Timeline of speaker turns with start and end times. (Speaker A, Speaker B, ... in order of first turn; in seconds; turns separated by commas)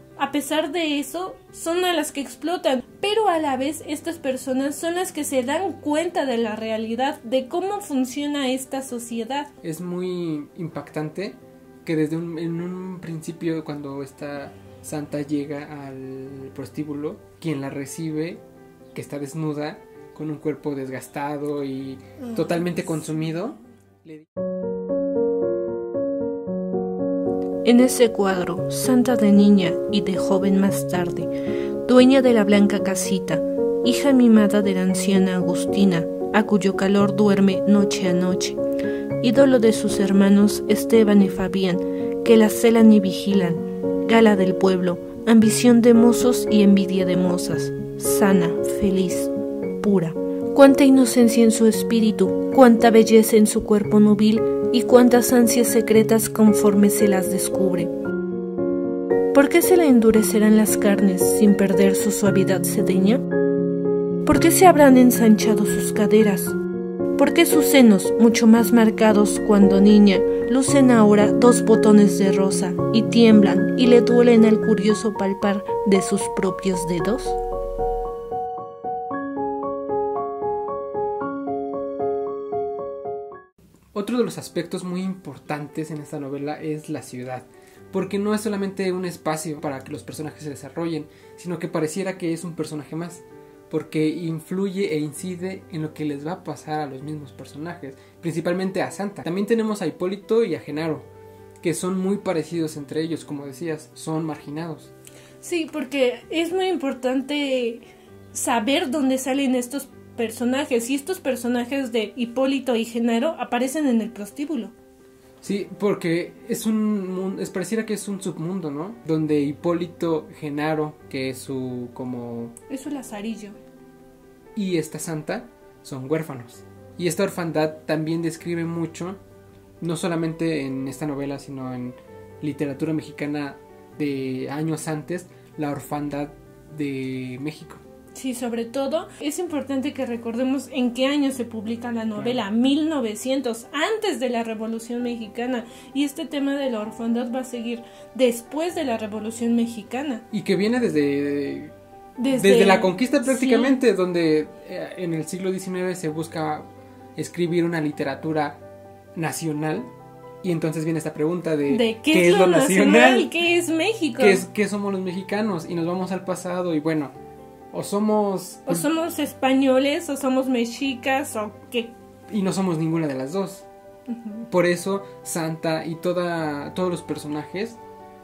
Speaker A: 0.2-9.5, Speaker B: 9.6-18.4, Speaker B: 18.9-24.3, Speaker A: 22.2-23.1, Speaker A: 27.6-31.3, Speaker A: 31.9-38.6, Speaker A: 39.2-57.9, Speaker A: 59.3-63.2, Speaker A: 64.2-66.6, Speaker A: 67.2-77.4, Speaker B: 83.9-101.1, Speaker B: 101.6-104.9, Speaker A: 105.4-114.7, Speaker B: 115.4-122.5, Speaker A: 122.7-123.6, Speaker B: 124.6-129.2, Speaker B: 129.8-137.8, Speaker A: 138.2-150.2, Speaker B: 142.2-142.4, Speaker B: 150.3-151.7, Speaker A: 152.2-153.8, Speaker B: 152.3-158.6, Speaker B: 159.2-159.9, Speaker B: 160.4-163.3, Speaker A: 161.7-164.4, Speaker B: 164.2-167.1, Speaker B: 167.7-168.9, Speaker A: 168.7-171.9, Speaker B: 172.3-173.7, Speaker A: 174.1-174.4, Speaker B: 174.5-177.8